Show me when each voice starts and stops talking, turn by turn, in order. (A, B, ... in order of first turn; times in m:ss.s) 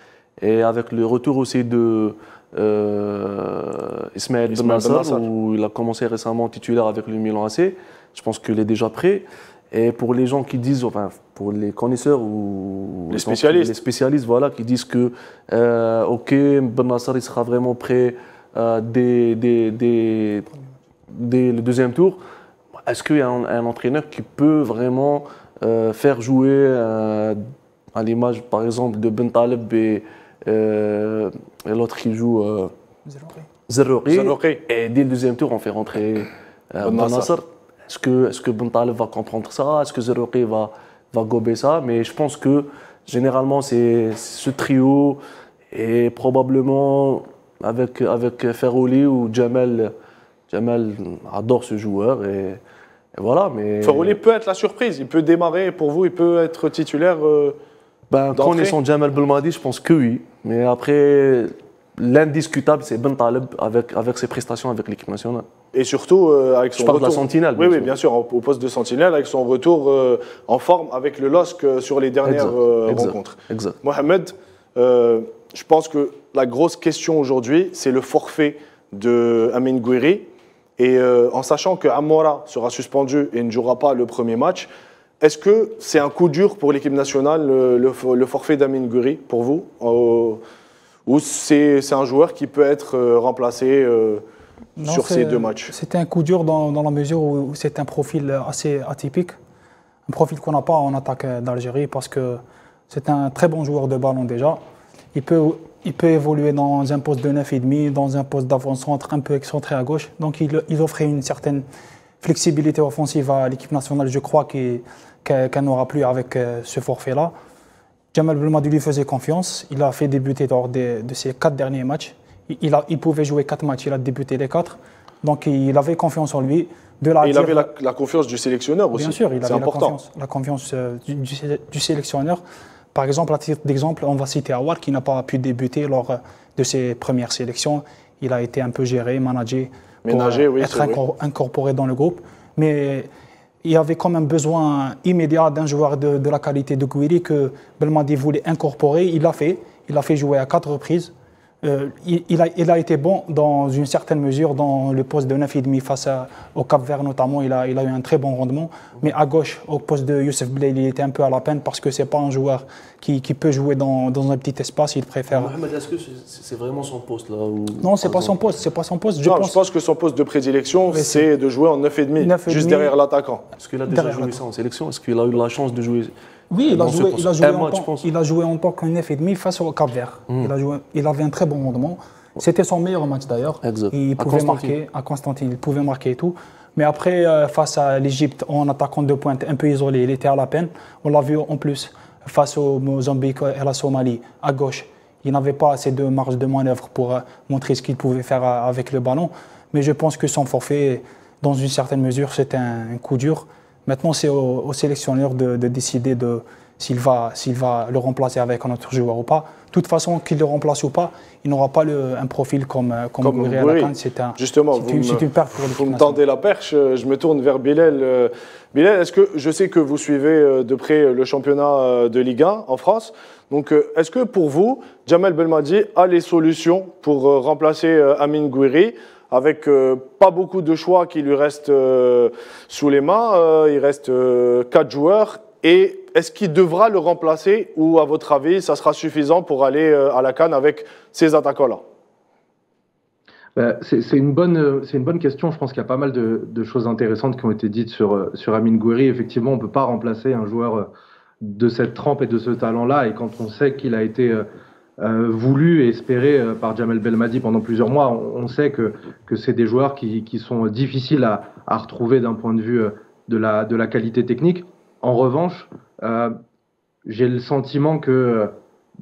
0:00.4-0:20.5 A
0:04.5-0:05.2 B
0:13.1-0:13.7 B
0:21.1-0:22.2 A
0:22.8-0:32.7 A
0:33.1-0:33.4 C
0:33.7-0:45.2 A
0:34.1-0:34.6 B
0:36.8-0:37.3 B
0:45.7-0:49.9 A
0:50.5-0:52.6 A
0:53.2-0:54.2 A
0:53.8-0:57.6 B
0:58.1-1:05.5 A
0:58.4-0:58.8 B
1:05.7-1:24.7 B
1:06.8-1:07.9 A
1:12.2-1:13.8 A
1:25.2-1:30.4 B
1:31.1-1:34.2 B
1:34.8-1:39.3 C
1:34.9-1:35.7 B
1:40.1-1:44.6 C
1:45.1-1:51.6 C
1:52.2-1:57.3 C
1:58.1-2:07.7 C
2:07.2-2:10.0 B
2:08.9-2:12.4 C
2:12.9-2:23.1 C
2:20.0-2:21.0 B
2:23.6-2:31.1 C
2:31.6-2:45.5 C
2:45.3-2:48.4 A
2:47.8-2:49.6 C
2:49.2-2:53.4 B
2:50.9-2:51.3 C
2:52.2-2:52.9 C
2:53.6-2:56.1 A
2:53.9-2:54.4 C
2:56.5-3:36.2 C
2:56.7-2:58.1 A
3:03.6-3:04.8 A
3:33.2-4:01.8 B
4:03.6-4:10.9 D
4:11.4-4:14.5 D
4:15.0-4:26.4 D
4:27.0-4:28.6 D